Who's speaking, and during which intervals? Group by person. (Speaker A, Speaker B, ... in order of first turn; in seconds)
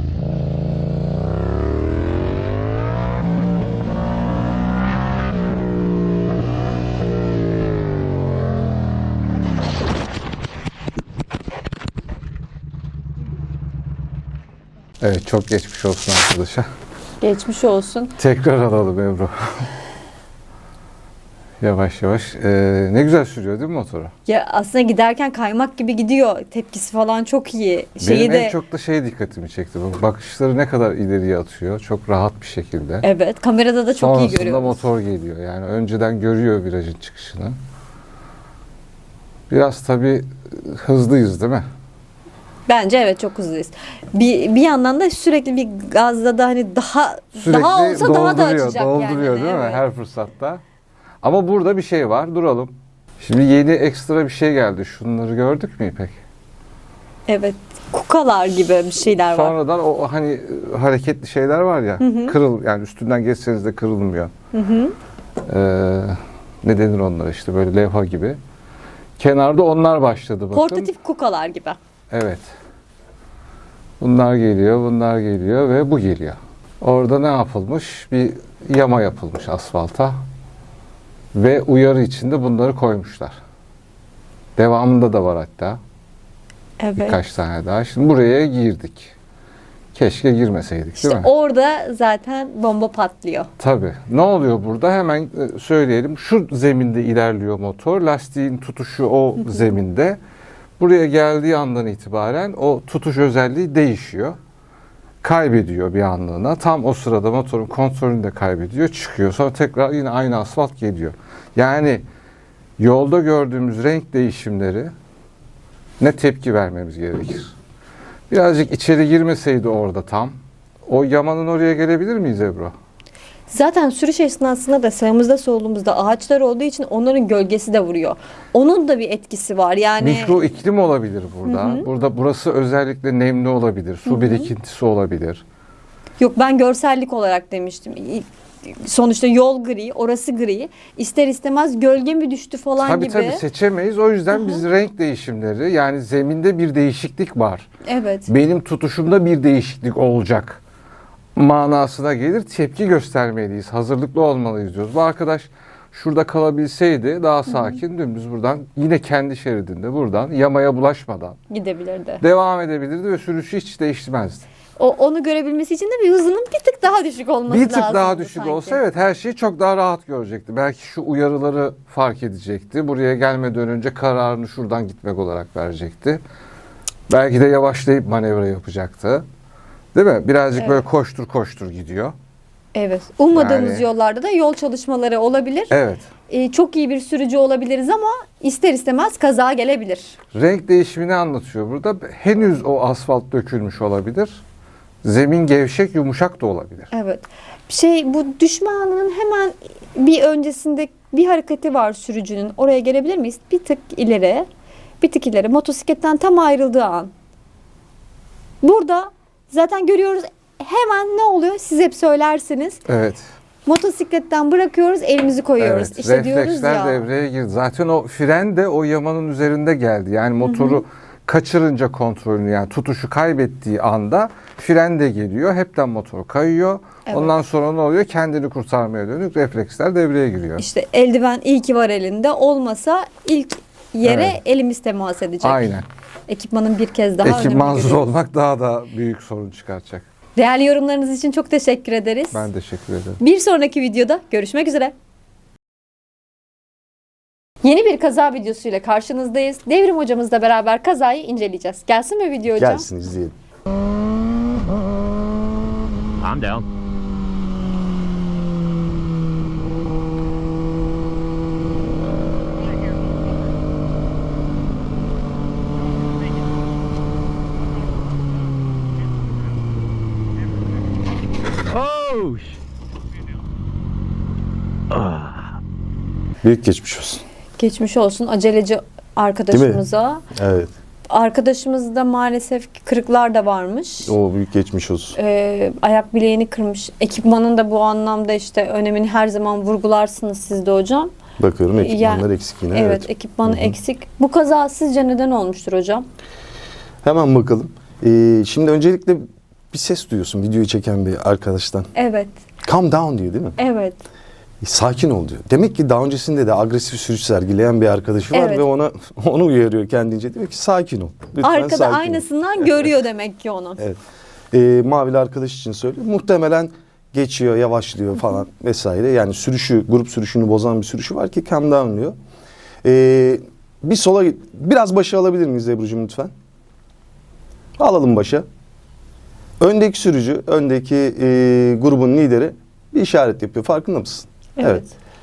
Speaker A: 15.0-16.7, 18.2-19.7, 21.6-24.1, 28.0-33.0, 34.0-37.5, 39.5-41.7, 47.4-50.6, 51.2-56.1, 59.3-64.3, 65.5-68.4, 69.2-70.9, 72.1-72.5, 74.0-80.2, 81.3-83.4, 84.6-85.8, 87.0-89.1, 89.9-91.3, 93.6-100.2, 100.8-104.4, 105.2-112.0, 112.8-114.9, 116.0-117.5, 118.3-120.3, 120.9-122.8, 130.0-135.4, 142.8-147.7, 148.3-150.6, 151.4-161.4, 162.2-164.4, 167.5-176.2, 177.1-179.2, 179.9-182.1, 183.3-183.8, 185.7-186.1, 190.3-194.4, 195.0-196.9, 212.9-213.2, 215.6-230.6, 234.1-234.4, 235.4-235.9, 237.2-240.1, 242.3-243.2
Speaker B: 17.2-18.1, 24.3-28.6, 33.0-34.8, 42.7-49.8, 57.3-59.5, 62.0-62.4, 64.5-64.9, 70.5-71.8, 86.8-87.2, 91.0-93.5, 123.5-130.4, 131.5-131.9, 134.1-134.5, 136.2-143.4, 144.3-144.6, 147.9-148.3, 157.5-157.8, 161.5-162.2, 164.8-168.8, 180.6-180.8, 182.8-185.7, 186.3-190.2, 196.9-204.5, 205.0-207.1, 208.6-212.8, 213.7-217.0, 220.4-220.8, 230.6-235.7, 236.3-238.0, 240.4-242.4, 243.2-244.9, 247.6-252.9, 277.6-280.2, 281.1-284.1, 285.2-291.1, 291.8-296.1, 302.0-302.3, 303.6-304.0, 308.3-308.6, 311.4-313.8, 334.6-334.9
Speaker C: 252.5-253.3, 276.4-277.2, 279.5-279.8, 280.3-280.7, 284.1-285.2, 291.4-293.8, 297.0-301.9, 302.6-303.6, 304.6-312.9, 314.5-322.1, 322.8-326.3, 327.8-328.5, 329.6-334.8
Speaker D: 256.2-256.7, 271.7-272.6, 274.9-275.5